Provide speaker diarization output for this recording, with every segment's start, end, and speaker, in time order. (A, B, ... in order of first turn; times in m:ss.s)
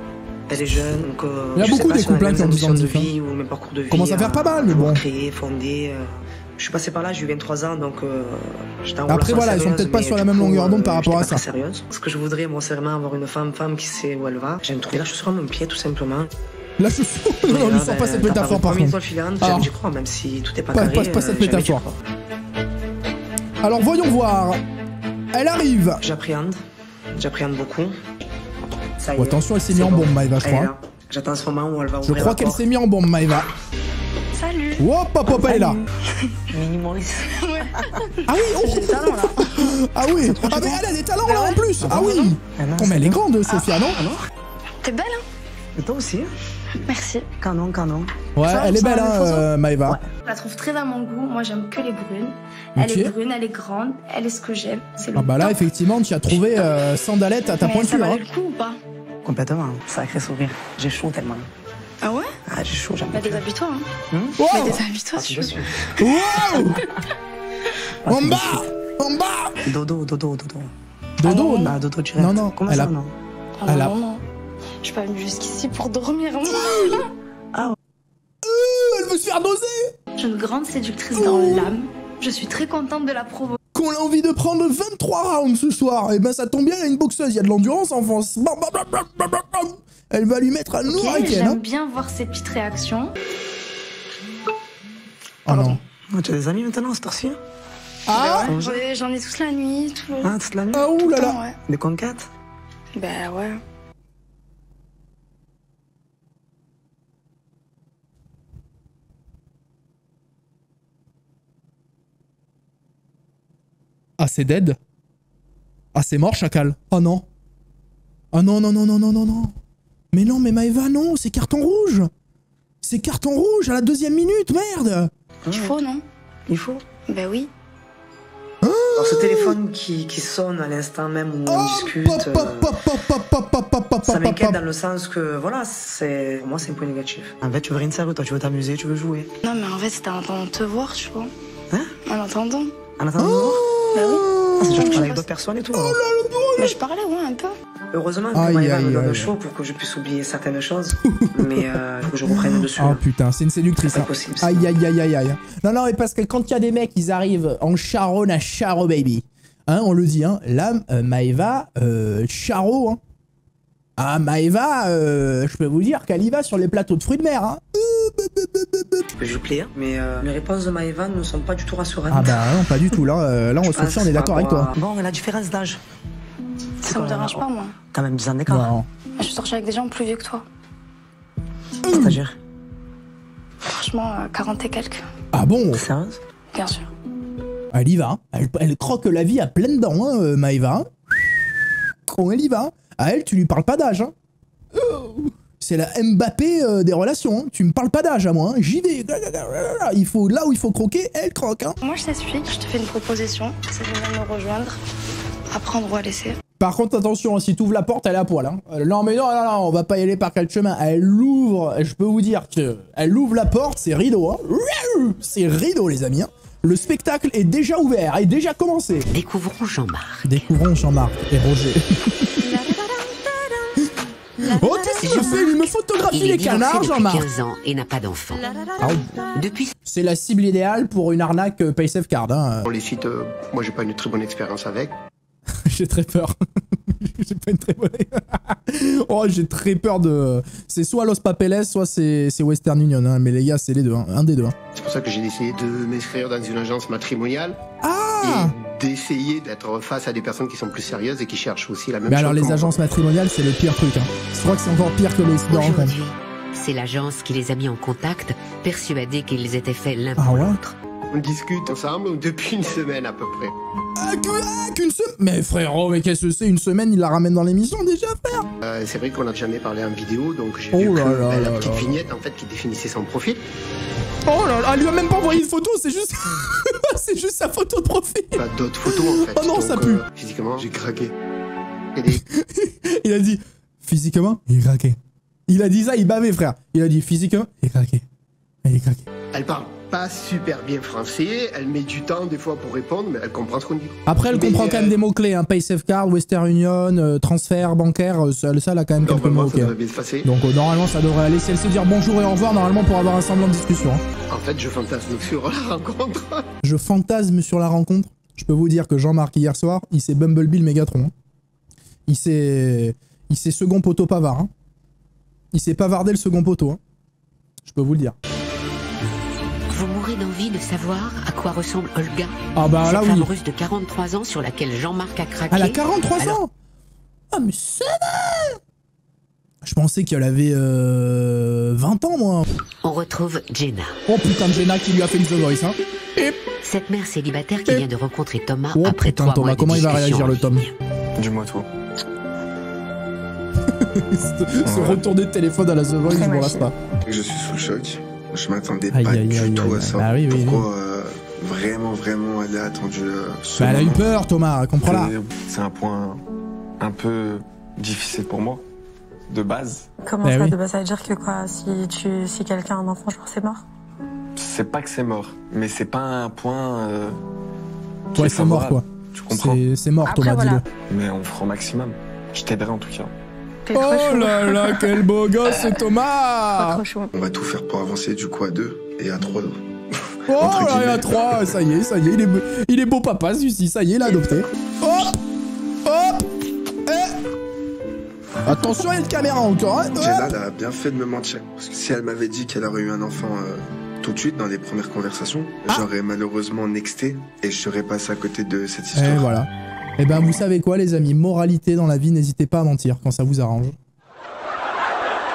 0:00.5-0:16.3 A
0:01.6-0:03.1 B
0:03.9-0:05.0 B
0:09.1-0:11.4 B
0:16.8-0:19.7 B
0:17.5-0:22.0 A
0:20.7-0:21.8 B
0:23.6-0:24.6 B
0:25.3-0:26.0 B
0:26.0-0:26.6 A
0:27.2-0:28.0 A
0:29.0-0:32.6 A
0:29.2-0:30.7 B
0:32.0-0:33.5 B
0:34.3-0:36.4 C
0:34.8-0:35.8 B
0:36.5-0:37.2 A
0:37.3-0:39.8 C
0:38.2-0:44.0 B
0:40.2-0:40.8 A
0:41.3-0:41.7 C
0:41.8-0:43.2 A
0:43.6-0:43.8 C
0:43.9-0:44.2 A
0:44.8-0:45.2 C
0:45.8-0:46.3 A
0:46.8-0:47.3 C
0:47.4-0:48.1 A
0:48.4-0:50.0 B
0:48.4-0:49.5 C
0:50.2-0:55.6 C
0:52.8-0:53.1 B
0:55.2-0:58.2 B
0:56.4-0:56.7 C
0:57.6-0:58.8 C
0:59.2-1:01.5 A
1:02.0-1:02.3 C
1:02.5-1:03.4 A
1:03.1-1:03.9 C
1:04.1-1:04.4 A
1:04.4-1:04.8 B
1:04.4-1:05.7 C
1:05.1-1:05.7 A
1:06.0-1:06.8 B
1:08.0-1:08.6 A
1:08.1-1:09.7 B
1:09.7-1:10.7 A
1:11.2-1:13.0 B
1:11.2-1:11.8 C
1:11.6-1:13.1 A
1:13.6-1:14.2 C
1:13.7-1:13.9 B
1:14.8-1:17.1 C
1:16.5-1:17.1 B
1:18.4-1:19.9 B
1:20.2-1:23.6 C
1:21.2-1:21.7 B
1:23.7-1:31.6 B
1:30.9-1:33.1 C
1:35.5-1:35.8 B
1:35.5-1:35.8 C
1:36.1-1:37.4 A
1:38.1-1:38.6 B
1:38.1-1:40.4 C
1:38.5-1:38.8 A
1:40.2-1:40.8 A
1:40.7-1:41.4 B
1:40.9-1:41.6 C
1:41.7-1:42.2 A
1:43.0-1:43.6 C
1:54.2-1:54.8 B
1:55.9-1:57.2 B
1:58.3-1:59.5 B
2:00.1-2:02.1 B
2:02.8-2:05.1 B
2:05.5-2:05.8 A
2:05.5-2:06.0 C
2:06.5-2:06.8 A
2:07.1-2:07.5 C
2:08.6-2:09.6 B
2:09.0-2:12.8 A
2:11.5-2:14.6 B
2:14.0-2:19.3 A
2:19.4-2:21.3 C
2:22.0-2:22.8 C
2:23.0-2:23.6 A
2:23.2-2:25.0 B
2:23.9-2:25.3 C
2:24.6-2:26.0 A
2:25.7-2:26.8 B
2:26.6-2:27.6 C
2:27.9-2:33.0 A
2:28.3-2:29.3 B
2:31.0-2:31.7 B
2:32.2-2:43.0 B
2:33.8-2:34.6 A
2:44.0-2:49.1 B
2:49.2-2:52.6 A
2:52.1-2:54.7 B
2:53.6-2:55.8 A
2:56.8-2:57.7 C
2:56.8-2:58.7 A
2:58.5-2:58.9 B
2:59.2-3:00.4 C
3:01.8-3:02.2 B
3:01.9-3:02.4 A
3:03.7-3:05.1 C
3:05.3-3:05.8 B
3:05.7-3:06.2 A
3:06.5-3:06.9 C
3:07.7-3:10.9 B
3:12.1-3:14.1 B
3:14.7-3:21.8 B
3:21.8-3:24.8 C
3:25.5-3:26.4 C
3:26.6-3:39.1 B
3:39.1-3:40.5 D
3:40.2-3:42.5 B
3:44.4-3:47.2 B
3:45.0-3:48.5 D
3:48.8-3:49.1 B
3:49.3-3:49.7 D
3:49.9-3:52.6 B
3:52.6-3:54.9 E
3:55.7-3:56.4 B
3:56.9-4:04.6 B
4:04.8-4:07.6 E
4:07.8-4:08.5 B
4:08.2-4:12.8 E
4:12.1-4:15.9 B
4:15.5-4:20.8 D
4:20.2-4:20.6 B
4:21.1-4:23.6 E
4:24.0-4:28.5 B
4:28.6-4:33.4 E
4:30.7-4:31.9 B
4:34.2-4:40.0 B
4:38.4-4:41.1 E
4:42.0-4:42.2 E
4:42.1-4:48.0 B
4:48.6-4:49.0 B
4:49.3-4:55.0 E
4:54.1-4:59.7 B
4:59.0-5:00.3 E
5:00.2-5:04.0 B
5:04.3-5:06.5 E
5:06.6-5:11.1 B
5:12.1-5:14.5 B
5:15.5-5:16.8 B
5:17.6-5:18.2 B
5:19.7-5:26.4 D
5:22.6-5:23.3 B
5:25.5-5:26.5 B
5:27.3-5:28.6 B
5:29.6-5:32.5 B
5:32.8-5:34.0 D
5:34.1-5:36.4 B
5:36.6-5:40.7 D
5:38.8-5:40.6 B
5:41.2-5:41.7 F
5:43.7-5:46.7 B
5:44.7-5:45.0 F
5:46.1-5:46.7 G
5:47.1-5:54.0 H
5:48.9-5:50.7 B
5:53.6-5:55.1 B
5:54.8-5:56.2 F
5:56.8-5:58.6 F
5:59.3-5:59.9 F
6:00.0-6:03.6 G
6:00.2-6:00.6 B
6:04.4-6:07.2 F
6:08.1-6:09.6 F
6:08.2-6:10.6 B
6:10.0-6:10.6 G
6:10.9-6:13.1 F
6:13.6-6:15.8 G
6:13.7-6:16.8 B
6:16.5-6:17.1 G
6:17.1-6:21.2 H
6:20.3-6:25.2 B
6:25.8-6:26.3 B
6:26.9-6:27.2 B
6:28.4-6:30.4 B
6:30.0-6:39.3 H
6:39.0-6:43.8 B